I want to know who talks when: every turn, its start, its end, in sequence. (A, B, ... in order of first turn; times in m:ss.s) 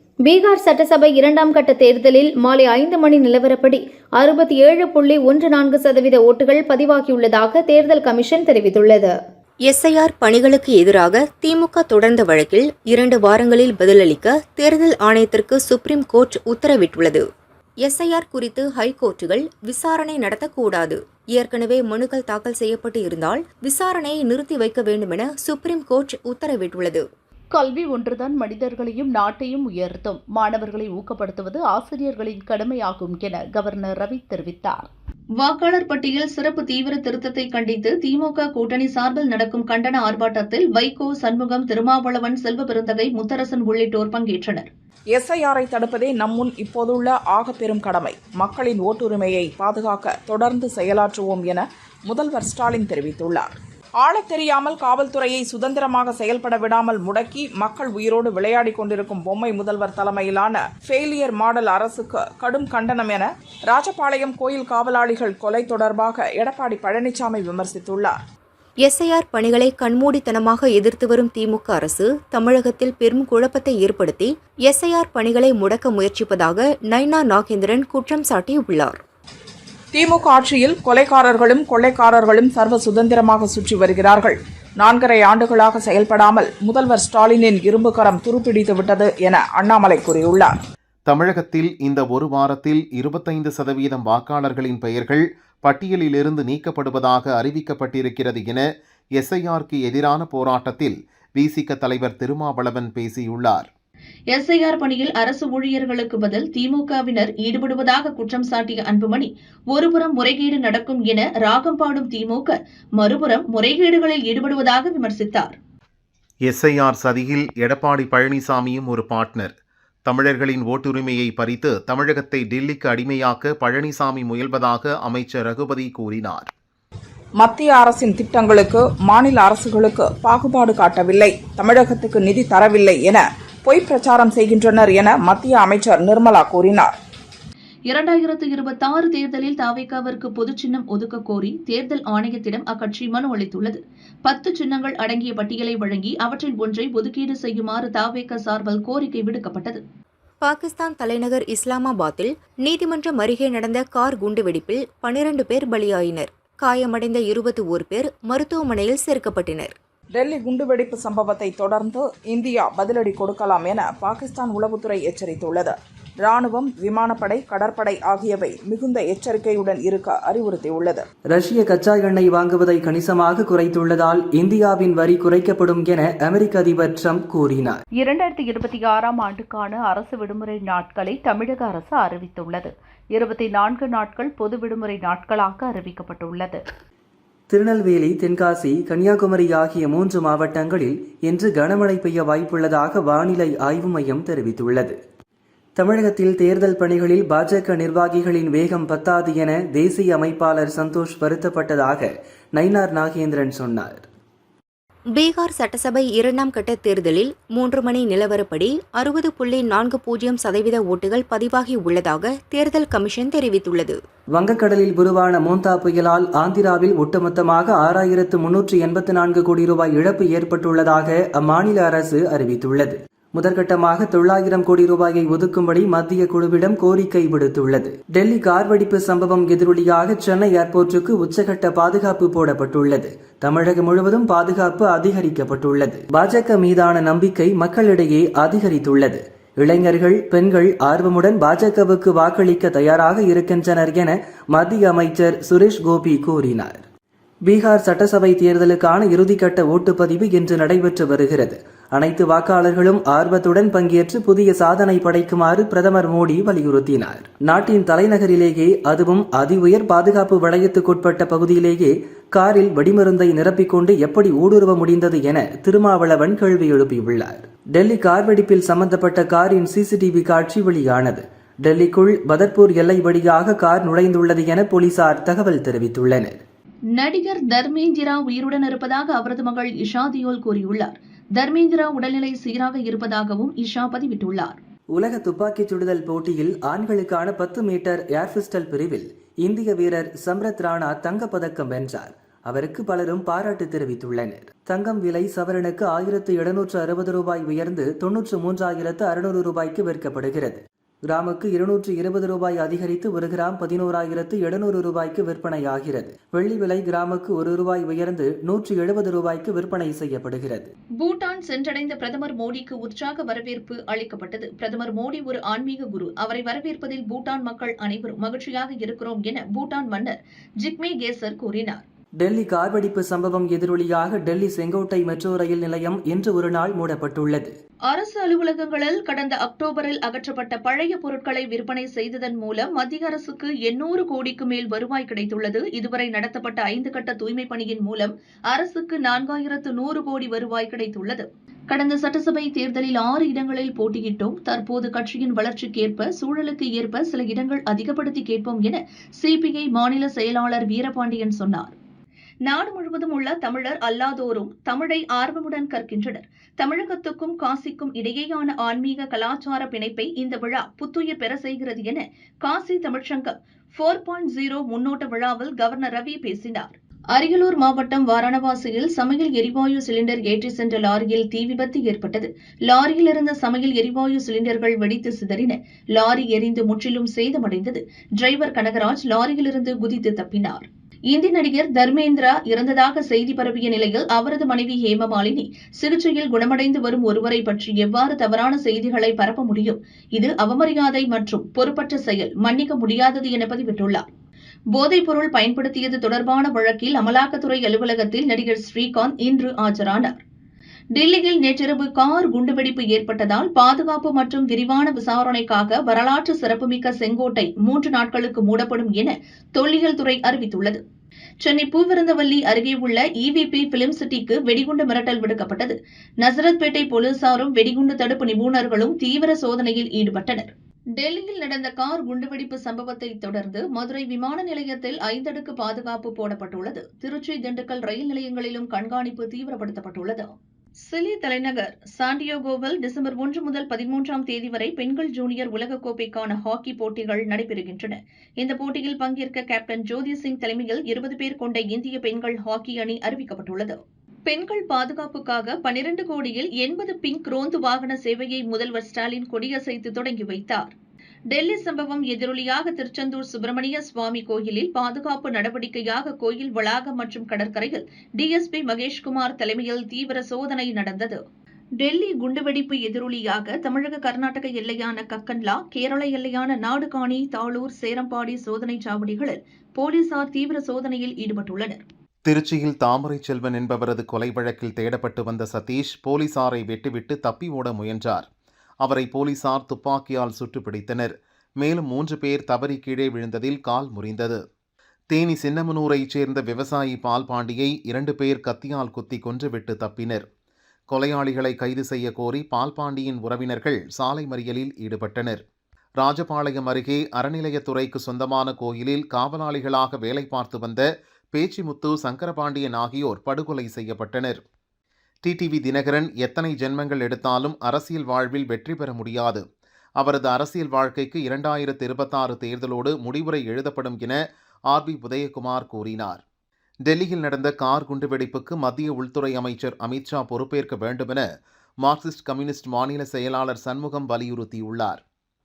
0:00.2-0:09.2 A
0:09.7-0:17.3 B
0:17.8-0:27.1 B
0:27.5-0:34.9 C
0:35.4-0:44.7 D
0:45.1-1:08.2 E
1:08.8-1:19.0 B
1:19.9-1:30.5 E
1:31.1-1:43.7 F
1:44.3-1:55.6 D
1:56.4-1:59.5 F
2:00.1-2:06.5 F
2:07.4-2:16.9 E
2:17.9-2:29.8 D
2:30.4-2:39.8 B
2:40.2-2:51.0 E
2:51.3-2:57.8 G
2:58.0-3:06.6 C
3:07.5-3:15.0 G
3:15.8-3:24.1 G
3:25.1-3:34.0 B
3:34.3-4:06.8 G
4:07.5-4:36.4 G
4:37.0-4:44.6 D
4:45.0-5:10.7 G
5:11.0-5:21.8 D
5:22.2-5:27.5 G
5:27.9-5:51.8 D
5:52.5-6:34.1 D
6:34.7-6:40.2 D
6:41.0-6:50.8 D
6:51.4-7:30.7 D
7:31.3-7:41.2 D
7:41.8-7:51.8 D
7:52.3-7:58.3 F
7:58.8-8:04.4 F
8:05.1-8:10.3 F
8:10.9-8:15.4 F
8:16.0-8:24.4 F
8:25.2-8:29.4 F
8:30.0-8:36.2 F
8:36.9-8:41.3 F
8:41.8-8:45.0 F